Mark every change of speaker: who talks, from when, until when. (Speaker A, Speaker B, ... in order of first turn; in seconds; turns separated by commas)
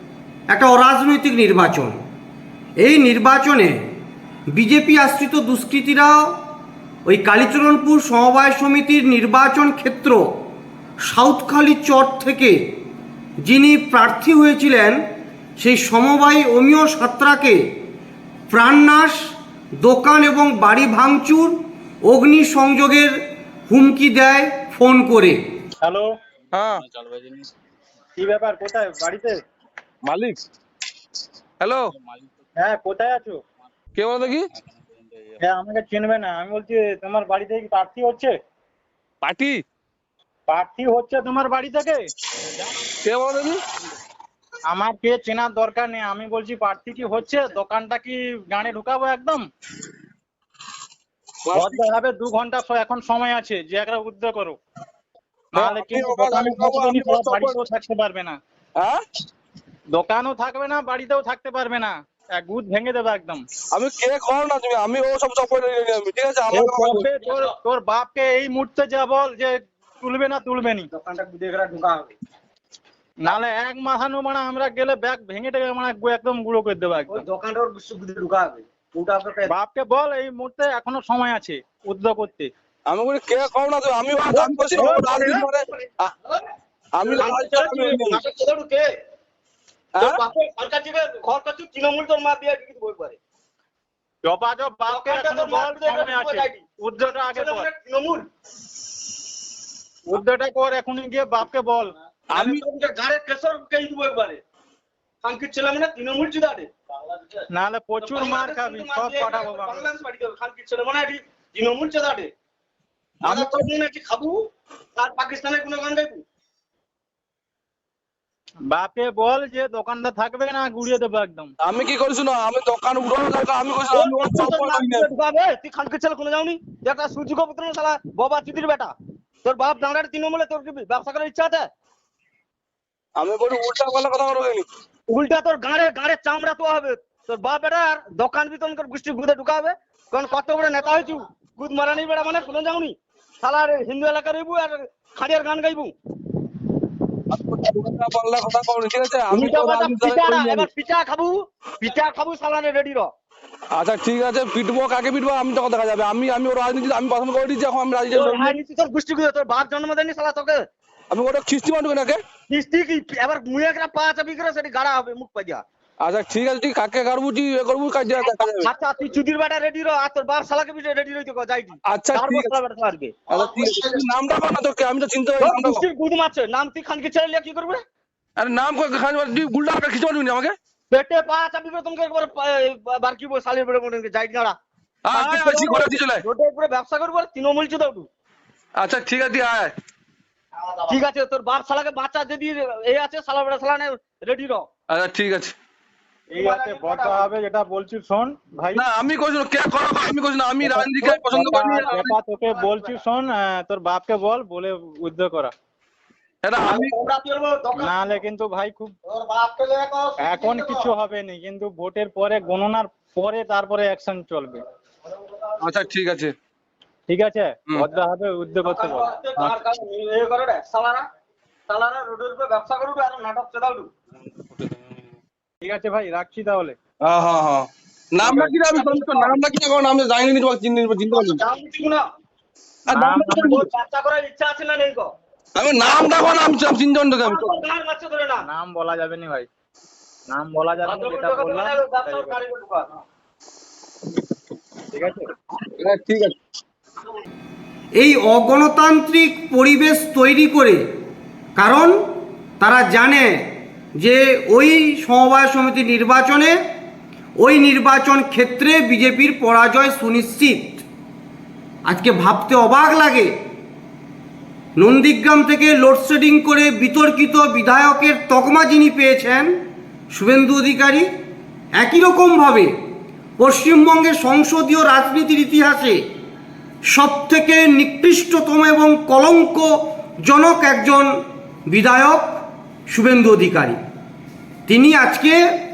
Speaker A: 0.5-2.0, Speaker A: 2.8-3.8, Speaker A: 4.6-6.3, Speaker A: 7.1-10.2, Speaker A: 11.1-12.6, Speaker A: 13.4-15.0, Speaker A: 15.6-17.6, Speaker A: 18.5-23.1, Speaker A: 23.7-25.4, Speaker B: 25.8-26.1, Speaker C: 26.5-26.9, Speaker B: 28.2-29.4, Speaker C: 30.1-30.4, Speaker C: 31.6-31.9, Speaker B: 32.6-33.4, Speaker C: 34.0-34.5, Speaker B: 35.4-38.4, Speaker C: 39.2-39.6, Speaker B: 40.5-42.1, Speaker C: 43.0-43.6, Speaker B: 44.7-49.4, Speaker C: 51.5-51.8, Speaker B: 51.5-54.6, Speaker B: 55.5-58.4, Speaker C: 55.6-57.6, Speaker B: 59.9-63.4, Speaker C: 63.7-67.1, Speaker B: 66.5-70.9, Speaker D: 67.2-67.5, Speaker D: 70.9-72.2, Speaker B: 73.2-77.2, Speaker D: 77.1-79.5, Speaker B: 79.5-82.5, Speaker C: 82.9-86.1, Speaker D: 84.2-86.4, Speaker B: 84.7-85.1, Speaker C: 87.0-88.2, Speaker D: 87.0-88.8, Speaker C: 90.0-90.2, Speaker D: 90.0-93.2, Speaker B: 94.2-97.7, Speaker D: 94.9-96.6, Speaker D: 97.3-98.3, Speaker B: 100.1-101.9, Speaker C: 102.3-102.6, Speaker D: 102.3-104.4, Speaker D: 105.2-107.4, Speaker B: 107.5-109.9, Speaker D: 108.0-112.3, Speaker D: 113.2-116.2, Speaker B: 113.2-113.6, Speaker B: 118.7-121.5, Speaker C: 121.6-125.1, Speaker D: 123.9-128.9, Speaker D: 129.4-131.7, Speaker C: 133.2-134.7, Speaker D: 135.1-145.9, Speaker C: 147.3-150.7, Speaker D: 149.3-153.1, Speaker C: 153.7-158.6, Speaker D: 158.1-160.6, Speaker C: 161.1-162.2, Speaker D: 162.5-165.6, Speaker C: 166.0-168.7, Speaker D: 168.3-174.0, Speaker C: 171.9-172.5, Speaker C: 173.3-175.8, Speaker D: 175.4-177.8, Speaker C: 178.4-180.6, Speaker D: 180.9-184.6, Speaker C: 185.1-186.2, Speaker D: 185.1-188.1, Speaker C: 188.8-189.7, Speaker D: 190.9-194.7, Speaker C: 194.9-195.6, Speaker D: 196.3-197.3, Speaker B: 196.3-198.8, Speaker C: 198.7-202.1, Speaker B: 200.6-205.5, Speaker D: 202.5-202.9, Speaker C: 206.4-206.9, Speaker D: 206.6-208.2, Speaker B: 207.8-208.9, Speaker D: 209.0-210.9, Speaker B: 210.2-214.6, Speaker C: 215.6-216.3, Speaker B: 217.1-219.1, Speaker D: 218.6-221.1, Speaker D: 221.7-223.9, Speaker B: 225.6-226.8, Speaker C: 227.0-231.4, Speaker D: 228.3-229.3, Speaker D: 231.1-232.0, Speaker B: 232.9-233.6, Speaker C: 232.9-233.7, Speaker D: 233.4-235.1, Speaker C: 235.6-237.6, Speaker D: 237.2-238.5, Speaker B: 238.4-239.5, Speaker B: 240.3-242.4, Speaker D: 240.8-243.0, Speaker B: 244.9-245.3, Speaker C: 245.7-246.3, Speaker A: 248.0-250.8, Speaker A: 251.6-252.0, Speaker A: 252.6-253.4, Speaker A: 254.0-256.6, Speaker A: 257.4-260.9, Speaker A: 261.9-263.3, Speaker A: 264.8-269.5, Speaker A: 270.1-271.1, Speaker A: 271.8-272.7, Speaker A: 273.4-276.0, Speaker A: 276.9-281.1, Speaker A: 281.7-282.3, Speaker A: 282.9-283.8, Speaker A: 284.7-285.4